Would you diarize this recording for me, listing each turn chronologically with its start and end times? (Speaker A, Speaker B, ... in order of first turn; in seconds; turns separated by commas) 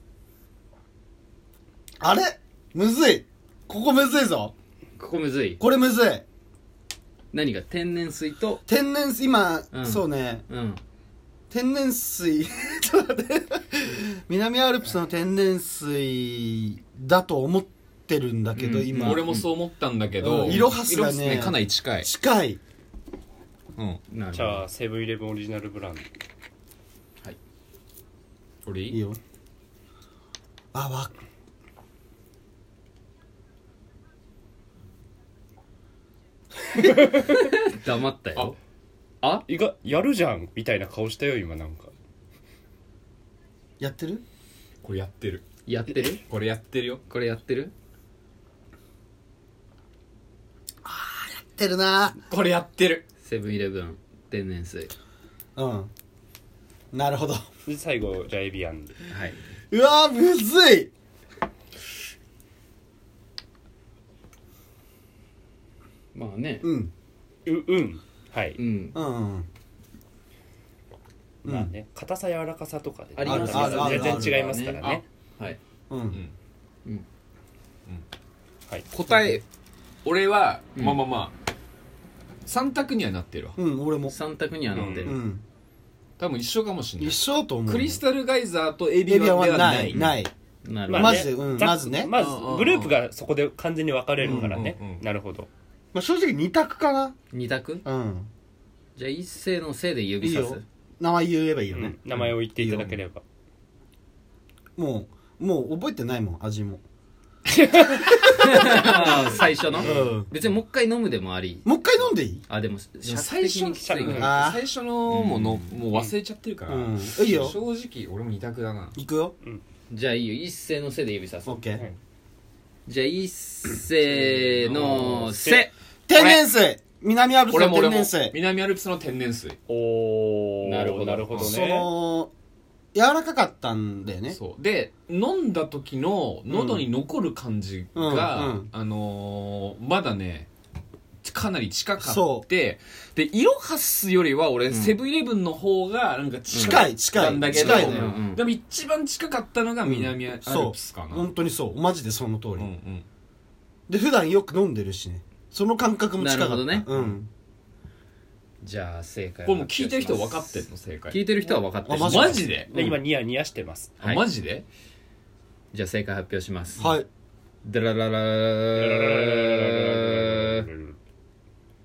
Speaker A: 2.0-4.5, Speaker B: 5.0-5.6, Speaker A: 5.6-6.2, Speaker B: 7.3-8.6, Speaker A: 8.7-10.4, Speaker B: 9.7-10.8, Speaker A: 11.5-19.3, Speaker B: 18.5-19.5, Speaker C: 19.0-22.1, Speaker A: 20.2-22.6, Speaker C: 23.8-24.0, Speaker B: 24.1-24.7, Speaker D: 24.3-26.1, Speaker C: 28.6-29.0, Speaker A: 28.9-29.2, Speaker A: 30.7-31.1, Speaker B: 36.7-38.6, Speaker B: 39.2-39.5, Speaker D: 39.5-41.9, Speaker A: 43.8-44.2, Speaker C: 44.8-45.4, Speaker B: 45.6-46.2, Speaker C: 46.3-47.0, Speaker B: 47.1-47.7, Speaker A: 50.8-52.2, Speaker C: 52.3-53.0, Speaker B: 53.2-54.9, Speaker A: 55.5-55.9, Speaker A: 56.9-57.4, Speaker D: 57.6-58.9, Speaker B: 59.1-59.4, Speaker A: 59.7-60.9, Speaker B: 66.1-66.7, Speaker A: 66.6-66.9, Speaker D: 67.5-68.6, Speaker B: 68.5-69.0, Speaker A: 68.9-69.5, Speaker D: 71.4-75.0, Speaker A: 71.4-71.7, Speaker B: 73.2-74.8, Speaker A: 73.2-74.5, Speaker A: 75.9-76.2, Speaker C: 78.9-79.4, Speaker B: 79.0-79.4, Speaker C: 80.0-81.3, Speaker B: 80.8-81.0, Speaker C: 82.5-83.6, Speaker A: 83.6-84.1, Speaker B: 84.1-85.2, Speaker D: 84.7-85.2, Speaker A: 85.0-85.4, Speaker C: 86.2-90.1, Speaker A: 87.0-88.0, Speaker A: 89.0-90.3, Speaker B: 90.6-91.3, Speaker D: 90.9-95.5, Speaker A: 90.9-92.1, Speaker C: 92.1-93.0, Speaker C: 94.2-95.0, Speaker A: 94.2-94.7, Speaker A: 95.9-97.2, Speaker B: 97.3-97.8, Speaker A: 97.8-98.3, Speaker B: 99.0-100.6, Speaker A: 100.2-102.0, Speaker D: 101.7-103.2, Speaker C: 102.1-103.0, Speaker A: 102.6-102.8, Speaker A: 104.8-106.8, Speaker D: 107.6-108.5, Speaker B: 108.2-114.3, Speaker A: 109.7-110.3, Speaker A: 111.6-112.4, Speaker C: 113.0-119.0, Speaker D: 113.7-114.4, Speaker A: 114.2-114.7, Speaker B: 115.1-116.0, Speaker A: 116.7-117.5, Speaker A: 118.9-119.3, Speaker B: 119.9-121.6, Speaker A: 121.5-121.8, Speaker B: 122.8-126.4, Speaker D: 124.1-125.7, Speaker A: 126.1-128.4, Speaker C: 127.5-129.6, Speaker D: 129.7-131.9, Speaker B: 130.6-131.3, Speaker C: 131.3-131.6, Speaker A: 131.4-132.3, Speaker A: 132.9-134.4, Speaker C: 134.3-140.5, Speaker A: 136.5-136.8, Speaker A: 137.9-138.7, Speaker C: 141.2-151.3, Speaker A: 142.0-142.4, Speaker B: 144.7-145.0, Speaker B: 146.5-146.8, Speaker A: 146.6-148.1, Speaker B: 147.4-148.4, Speaker A: 149.8-152.7, Speaker C: 152.6-153.1, Speaker A: 153.9-157.3, Speaker B: 156.2-156.9, Speaker B: 158.6-162.5, Speaker C: 159.4-161.2, Speaker A: 161.8-162.8, Speaker C: 162.0-162.7, Speaker D: 162.7-164.0, Speaker C: 164.0-164.6, Speaker B: 165.7-166.9, Speaker A: 166.8-167.1, Speaker B: 167.6-170.7, Speaker D: 168.8-170.9